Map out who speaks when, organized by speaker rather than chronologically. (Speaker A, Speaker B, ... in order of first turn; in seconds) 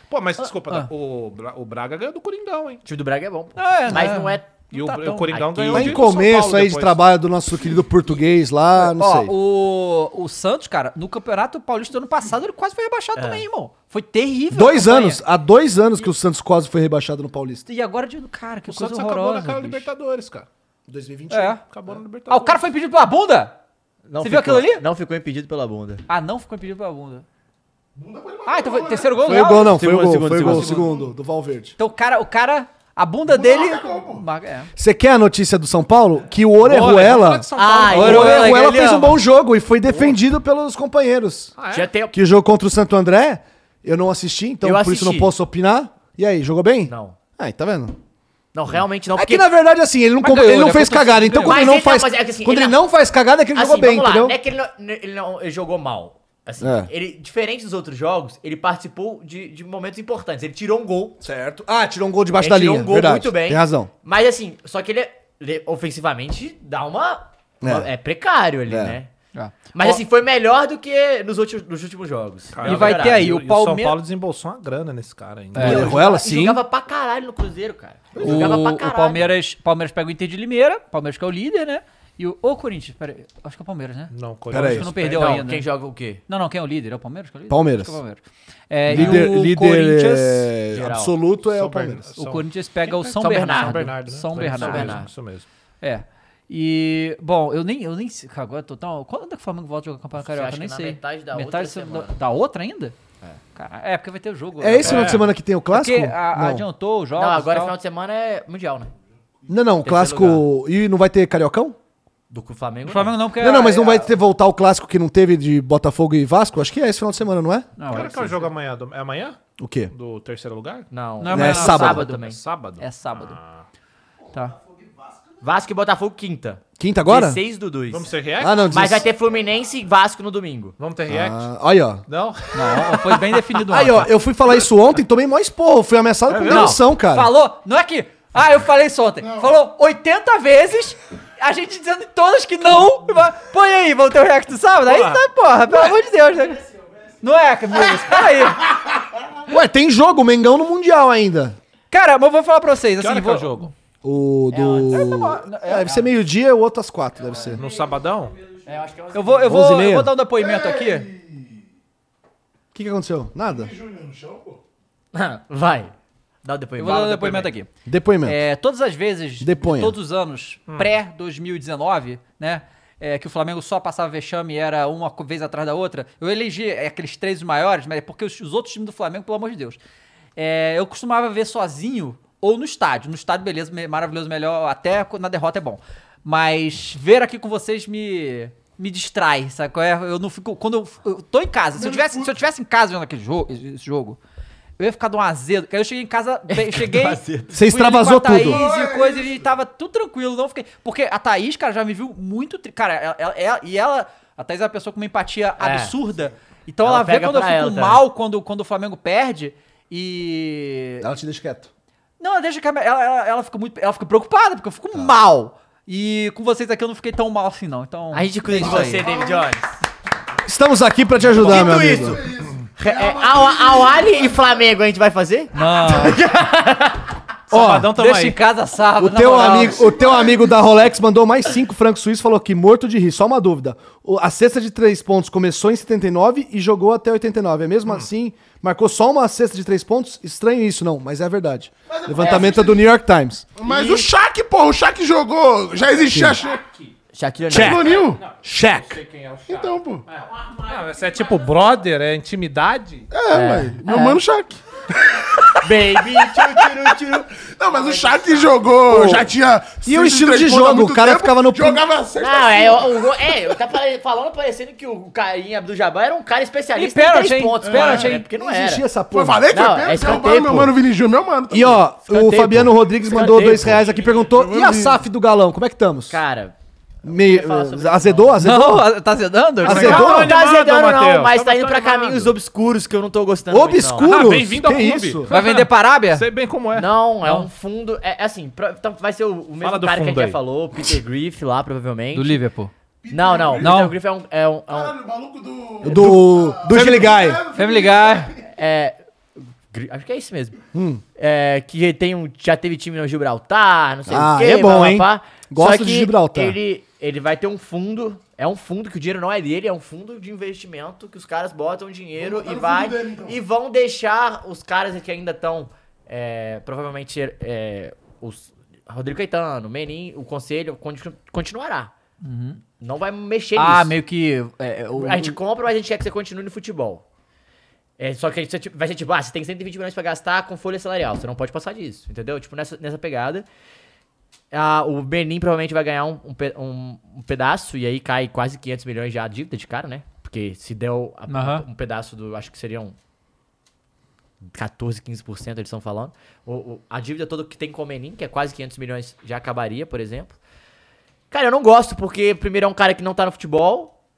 Speaker A: 0.1-2.8, 4.7-7.0, 18.7-20.5, 21.6-22.6, 36.6-38.5, 41.6-41.9, 72.5-75.9, 84.1-85.5, 88.9-89.2, 91.4-95.5, 104.8-105.3, 117.9-119.4, 119.9-120.9, 121.7-123.7, 127.9-128.8, 130.8-131.5, 132.1-133.4, 136.3-136.7, 144.9-145.2, 153.0-153.7, 157.4-158.4, 170.7-170.9, 227.5-228.4, 246.5-246.9, 248.0-253.1, 279.7-282.3, 284.0-286.9, 289.6-290.4
Speaker B: 0.4-0.9, 3.6-5.7, 8.8-15.2, 17.7-19.9, 21.3-21.6, 22.3-23.6, 24.2-24.8, 26.1-27.2, 28.5-30.7, 31.8-34.7, 37.9-39.2, 50.2-51.7, 69.3-70.0, 72.6-74.0, 75.5-76.0, 78.2-85.7, 86.3-90.5, 92.2-95.1, 95.8-103.0, 103.5-107.8, 112.9-114.1, 117.8-118.4, 121.2-122.3, 122.8-123.4, 132.5-134.1, 136.4-146.6, 147.2-148.8, 151.9-153.7, 154.9-156.1, 159.1-161.1, 166.8-167.7, 168.2-179.8, 180.4-194.2, 194.8-211.1, 212.2-219.1, 225.5-226.2, 227.9-229.9, 266.8-268.3, 278.4-280.3, 285.3-286.3, 292.1-292.7, 293.6-293.9, 296.7-298.3, 322.2-322.6, 323.6-325.4, 341.3-341.6
Speaker C: 2.9-4.5, 5.3-6.0, 13.2-13.4, 24.1-26.0, 29.6-30.9, 37.6-39.2, 41.7-42.1, 44.6-45.3, 46.9-47.2, 48.5-49.5, 51.4-52.8, 53.5-61.2, 62.4-69.1, 69.7-73.2, 75.6-79.3, 85.0-86.2, 90.7-91.2, 93.2-95.1, 100.2-102.2, 107.2-108.9, 109.8-110.5, 112.3-113.2, 117.9-118.2, 120.9-122.4, 125.4-130.8, 154.5-155.1, 158.5-159.7, 165.1-165.9, 166.4-167.5, 196.5-197.5, 205.6-205.9, 206.8-208.0, 218.1-219.7, 221.3-227.1, 242.2-242.6, 243.7-244.1, 247.1-247.9, 253.3-254.2, 255.6-258.7, 262.2-268.9, 269.5-270.7, 272.1-273.8, 276.1-278.4, 279.7-284.1, 286.8-292.4, 293.1-294.9, 298.5-299.0, 299.7-300.6, 301.2-321.9, 322.8-323.9, 325.0-327.0, 328.0-333.5, 334.5-342.9, 344.5-350.4, 351.3-353.9
Speaker D: 5.7-9.3, 14.5-17.6, 20.9-21.6, 29.2-31.7, 34.8-41.5, 42.1-48.0, 49.1-54.4, 56.6-56.9, 61.2-63.9, 67.6-67.9, 68.7-69.0, 75.6-76.6, 78.2-78.6, 84.5-84.9, 87.5-88.0, 88.9-92.0, 104.6-106.7, 109.5-111.8, 113.4-117.7, 119.6-119.9, 121.3-122.0, 126.8-127.4, 128.4-129.1, 131.1-132.0, 133.5-137.3, 149.5-151.6, 154.0-157.6, 159.5-160.1, 162.7-163.7, 167.8-168.4, 169.4-170.0, 197.5-198.6, 211.0-211.7, 220.4-222.2, 227.5-227.9, 229.0-243.5, 246.1-246.4, 247.5-249.0, 258.9-259.3, 259.9-261.8, 268.3-269.5, 271.5-276.2, 277.0-278.9, 279.6-280.4, 283.5-285.3, 295.8-297.4, 300.7-301.0, 304.1-306.6
Speaker E: 27.9-29.4, 30.5-31.1, 33.3-34.3, 139.2-139.6, 160.3-161.6, 163.5-164.6, 191.8-192.4, 198.4-199.4, 218.6-219.5, 221.3-224.6, 229.3-230.7, 241.9-242.9, 243.6-246.6, 247.5-248.2, 249.5-250.1, 253.1-263.5, 267.6-268.1, 269.1-271.9, 273.7-275.0, 293.0-293.8, 294.7-298.5, 312.2-313.4